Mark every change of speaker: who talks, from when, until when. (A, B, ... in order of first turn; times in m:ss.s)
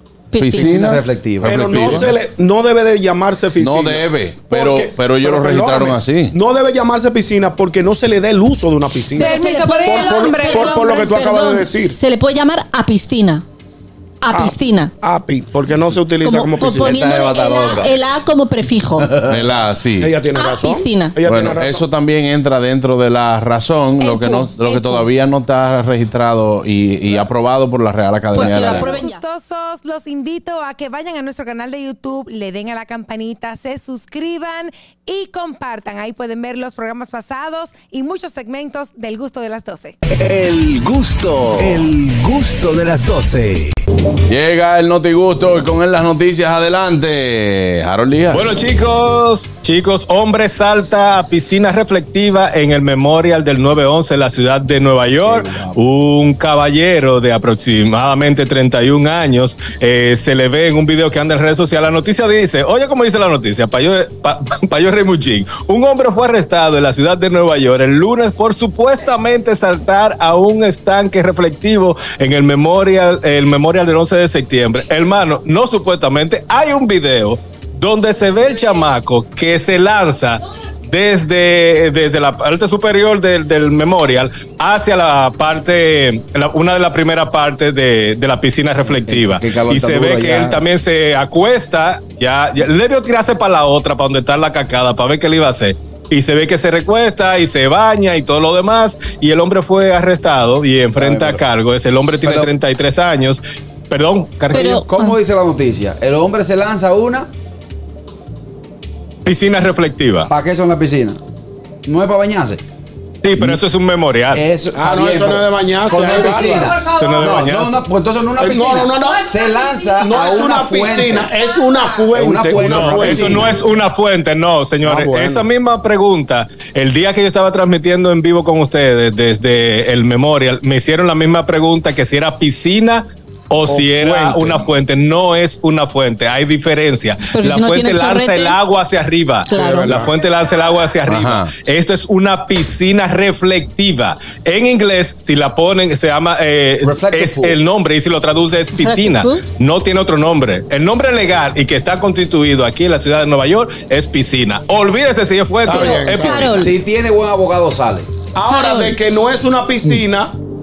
0:00.3-0:00.9 A
0:00.4-0:02.1 B
0:00.5-0:02.1 C
0:01.4-0:12.0 D
0:03.6-0:06.4 B
0:09.2-0:13.4 A
0:09.2-0:10.9 E
0:14.2-0:14.9 A
0:14.3-0:16.9 D
0:16.2-0:19.2 A
0:16.8-0:18.0 C
0:19.0-0:19.4 C
0:19.3-0:20.1 B
0:20.0-0:21.9 D
0:20.3-0:21.2 A
0:21.2-0:29.0 B
0:24.0-0:25.1 E
0:28.3-0:29.2 A
0:28.5-0:28.9 C
0:28.7-0:40.0 E
0:40.2-0:43.7 F
0:44.3-0:48.6 B
0:48.3-1:44.7 G
0:55.2-0:55.8 C
1:28.8-1:30.6 C
1:41.0-1:41.4 C
1:42.2-1:42.5 C
1:44.5-1:45.1 A
1:44.6-1:47.3 C
1:49.2-1:50.3 G
1:50.2-1:51.2 C
1:51.8-1:52.6 C
1:53.2-1:54.4 G
1:54.3-2:01.4 C
1:54.8-1:56.8 D
1:56.2-1:57.4 E
1:57.0-1:57.8 G
1:58.4-1:59.3 D
1:59.3-1:59.8 E
2:00.0-2:03.6 D
2:01.6-2:02.0 E
2:02.1-2:03.6 C
2:02.6-2:36.4 G
2:04.8-2:05.5 D
2:13.7-2:14.7 D
2:17.3-2:18.6 A
2:19.5-2:20.0 A
2:19.5-2:20.1 D
2:21.1-2:21.5 B
2:26.8-2:27.6 C
2:28.8-2:29.4 A
2:35.6-2:36.7 D
2:35.7-2:36.7 A
2:36.4-2:38.1 C
2:38.4-2:40.4 D
2:38.4-2:39.0 A